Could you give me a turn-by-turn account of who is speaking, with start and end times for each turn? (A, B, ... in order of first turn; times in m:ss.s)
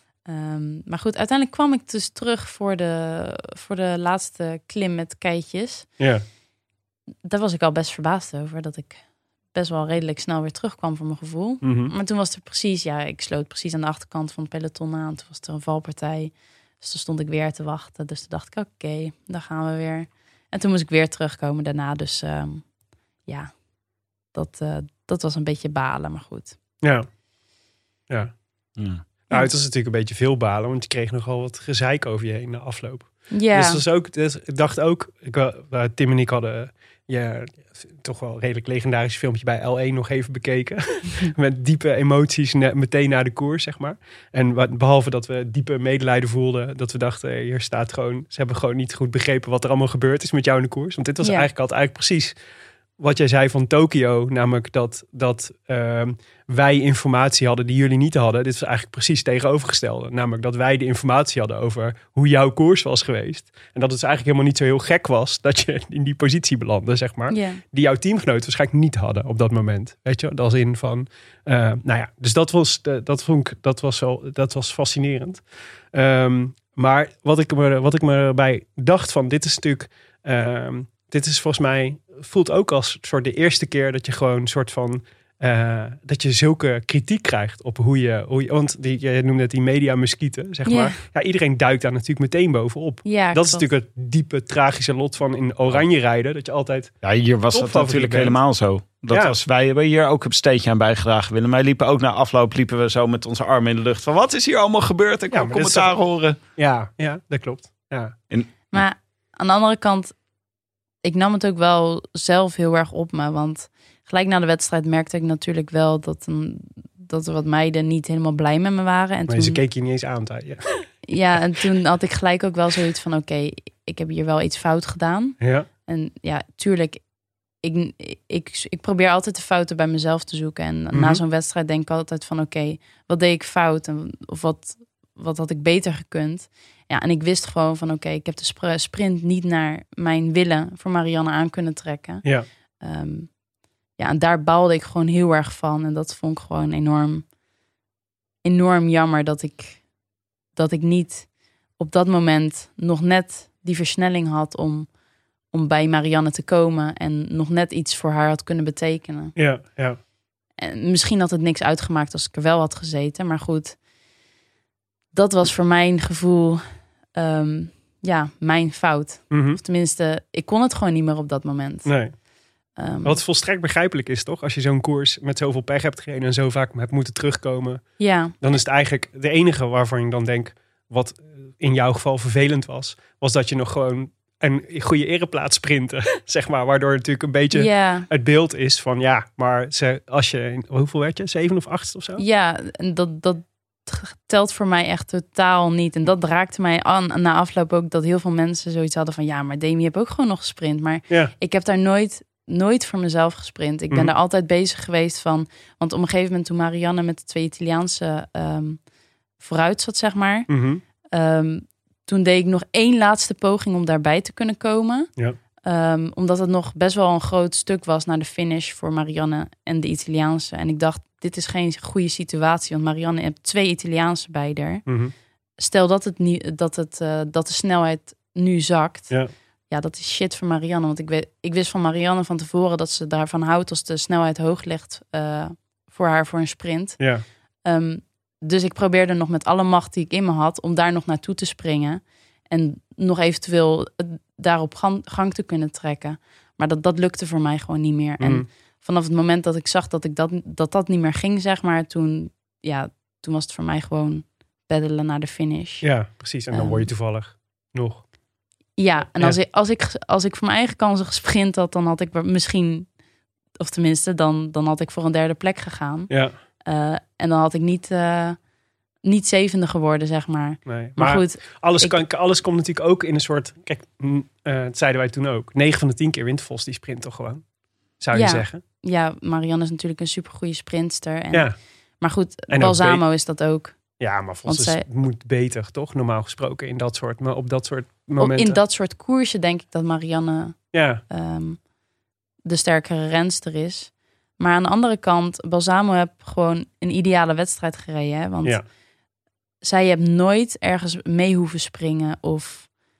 0:00.2-0:06.0 A
0:06.0-0:06.2 B
0:07.2-0:23.6 A
0:11.6-0:11.9 B
0:24.3-0:26.6 A
0:26.8-0:27.1 B
0:28.8-0:29.0 C
0:29.3-0:52.4 B
0:33.3-0:33.8 A
0:51.2-0:51.5 A
0:53.0-1:36.9 B
1:07.3-1:07.6 A
1:30.7-1:31.0 A
1:33.0-1:33.6 A
1:37.0-1:46.4 C
1:37.5-1:38.4 B
1:39.1-1:39.4 B
1:45.3-1:48.2 B
1:48.3-1:48.9 C
1:48.7-1:50.2 A
1:51.0-1:59.6 A
1:59.3-2:01.1 B
2:01.1-2:07.1 A
2:05.4-2:05.7 B
2:07.6-2:23.4 A
2:10.9-2:11.2 B
2:24.0-2:27.3 A
2:28.4-2:29.9 A
2:30.5-2:34.9 A
2:35.5-2:39.3 A
2:39.4-2:40.0 B
2:40.6-2:43.8 A
2:45.1-2:52.0 A
2:49.3-2:49.6 B
2:51.9-2:52.2 B
2:52.8-2:53.2 A
2:53.0-3:12.2 B
2:58.0-2:58.3 A
3:07.5-3:08.1 A
3:12.2-3:28.8 A
3:29.4-3:30.5 A
3:30.5-3:30.8 B
3:31.1-3:35.1 A
3:35.6-3:44.8 A
3:44.9-3:45.1 B
3:45.6-4:15.9 A
3:57.0-3:57.2 B
4:08.2-4:08.5 B
4:15.8-4:18.1 B
4:16.5-4:16.9 A
4:18.8-4:22.9 A
4:19.0-4:19.4 B
4:23.6-4:28.4 A
4:26.1-4:26.4 B
4:29.0-4:32.0 A
4:30.7-4:38.6 B
4:38.1-4:44.9 A
4:41.3-4:41.6 B
4:42.5-4:43.0 B
4:44.0-4:48.6 B
4:48.2-4:51.7 A
4:50.7-4:51.0 B
4:52.4-4:58.6 A
4:59.6-5:02.7 A